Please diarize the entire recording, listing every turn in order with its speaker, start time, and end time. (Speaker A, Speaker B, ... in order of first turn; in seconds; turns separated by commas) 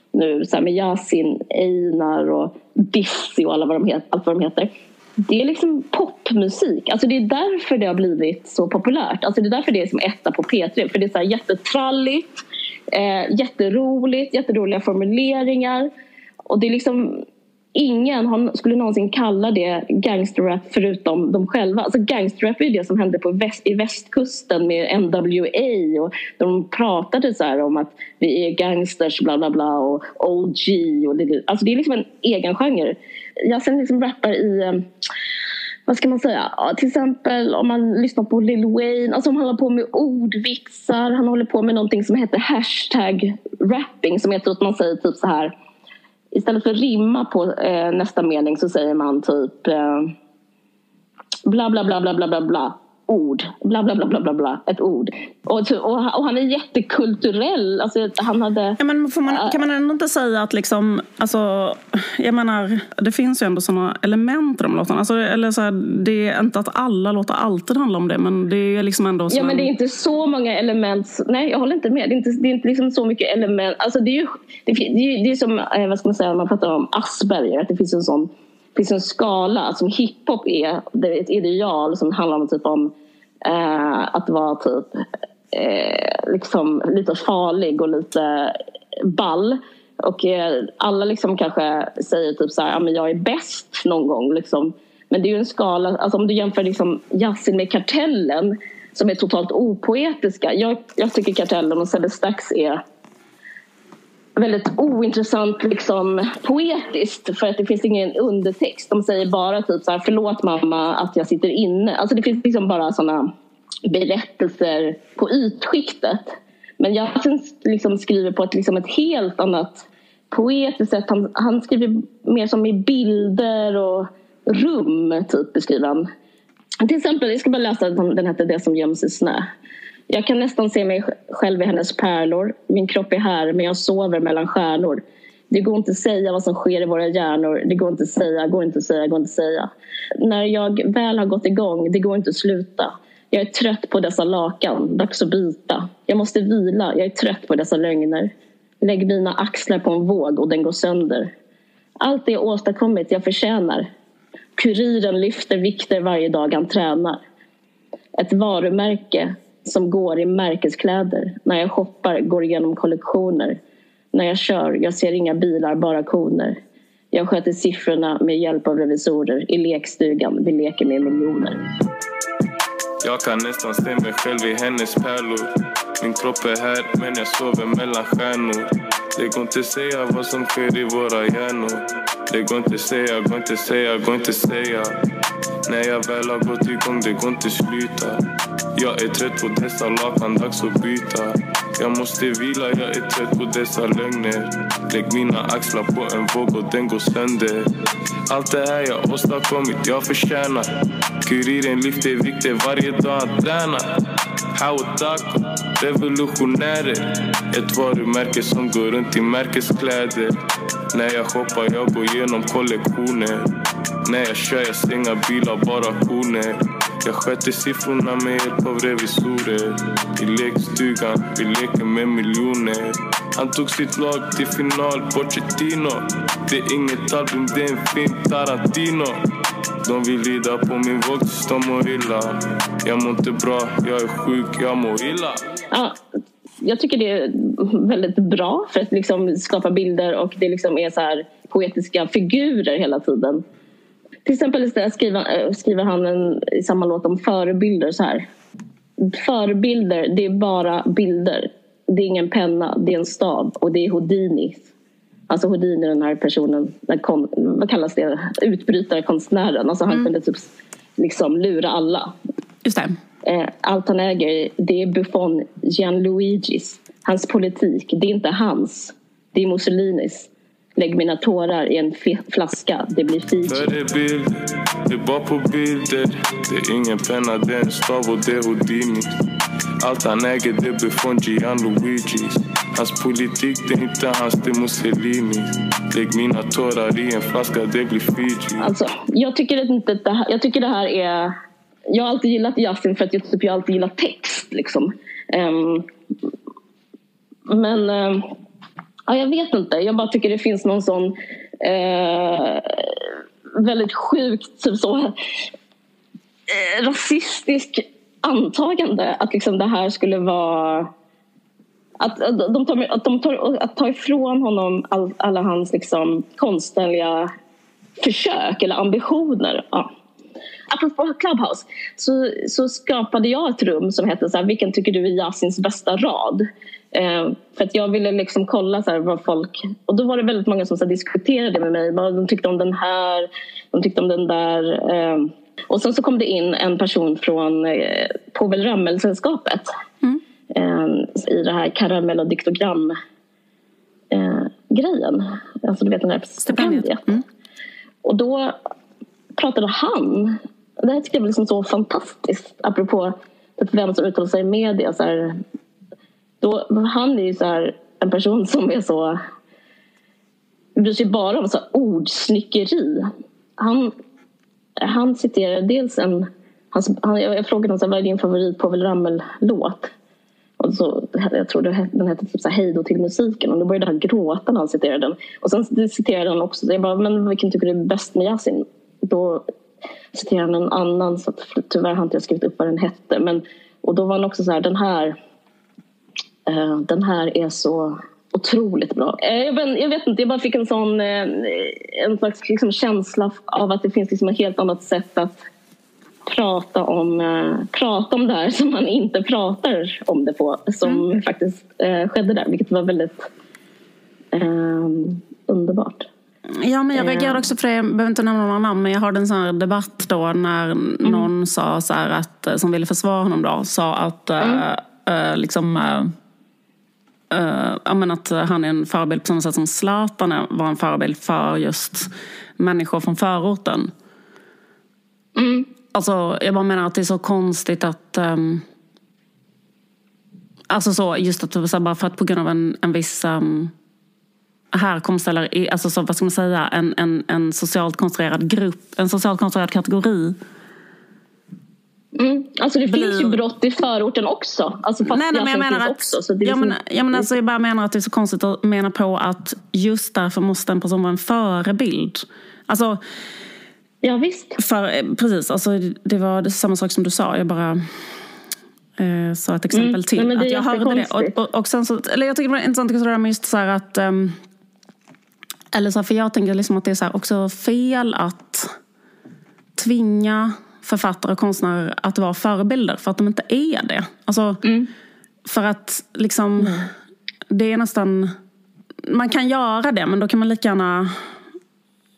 Speaker A: 0.1-15.9, Speaker A: 16.5-34.9, Speaker A: 35.9-45.5, Speaker A: 46.3-50.1, Speaker A: 51.5-59.6, Speaker B: 58.8-69.7, Speaker A: 69.3-82.9, Speaker A: 83.4-102.8, Speaker A: 104.4-113.3, Speaker A: 113.9-126.1, Speaker A: 126.8-129.5, Speaker A: 130.1-151.3, Speaker A: 152.0-153.9, Speaker A: 154.6-157.2, Speaker A: 158.2-163.6, Speaker A: 164.1-166.6, Speaker A: 167.1-171.6, Speaker C: 173.0-175.5, Speaker C: 176.0-184.9, Speaker C: 185.7-188.2, Speaker C: 188.8-197.6, Speaker C: 198.3-200.7, Speaker C: 201.2-203.9, Speaker C: 204.6-210.3, Speaker C: 210.9-213.4, Speaker C: 214.1-229.2, Speaker C: 229.9-235.4, Speaker A: 235.7-236.0, Speaker A: 236.6-243.4, Speaker A: 244.2-248.3, Speaker A: 249.0-254.7, Speaker A: 255.3-262.1, Speaker B: 262.6-263.0, Speaker A: 263.2-273.7, Speaker C: 273.5-279.1, Speaker C: 279.8-288.7, Speaker A: 288.6-291.3, Speaker A: 291.9-295.9, Speaker A: 297.5-298.3, Speaker A: 299.1-305.2, Speaker A: 306.5-310.9, Speaker A: 312.0-317.3, Speaker A: 318.0-319.9, Speaker A: 320.7-339.7, Speaker A: 340.5-342.9, Speaker A: 344.1-347.1, Speaker B: 346.4-347.2, Speaker A: 348.0-348.6, Speaker A: 349.4-355.4, Speaker A: 356.4-359.2, Speaker A: 360.8-363.9, Speaker A: 364.8-369.9, Speaker A: 370.6-379.4, Speaker A: 380.1-385.2, Speaker A: 386.5-395.4, Speaker A: 396.3-403.3, Speaker A: 404.3-406.1, Speaker B: 406.6-416.1, Speaker A: 406.9-407.5, Speaker A: 411.0-411.3, Speaker B: 417.3-423.9, Speaker A: 425.4-425.7, Speaker B: 425.9-428.6, Speaker B: 430.7-433.7, Speaker B: 434.7-440.4, Speaker A: 442.1-447.3, Speaker B: 442.9-443.4, Speaker B: 445.1-453.0, Speaker A: 454.0-454.6, Speaker B: 454.6-457.8, Speaker B: 459.0-464.4, Speaker A: 459.7-461.4, Speaker B: 465.7-468.7, Speaker B: 469.8-474.6, Speaker A: 474.6-474.9, Speaker B: 475.5-476.8, Speaker A: 476.6-476.9, Speaker B: 477.5-478.3, Speaker B: 479.1-481.2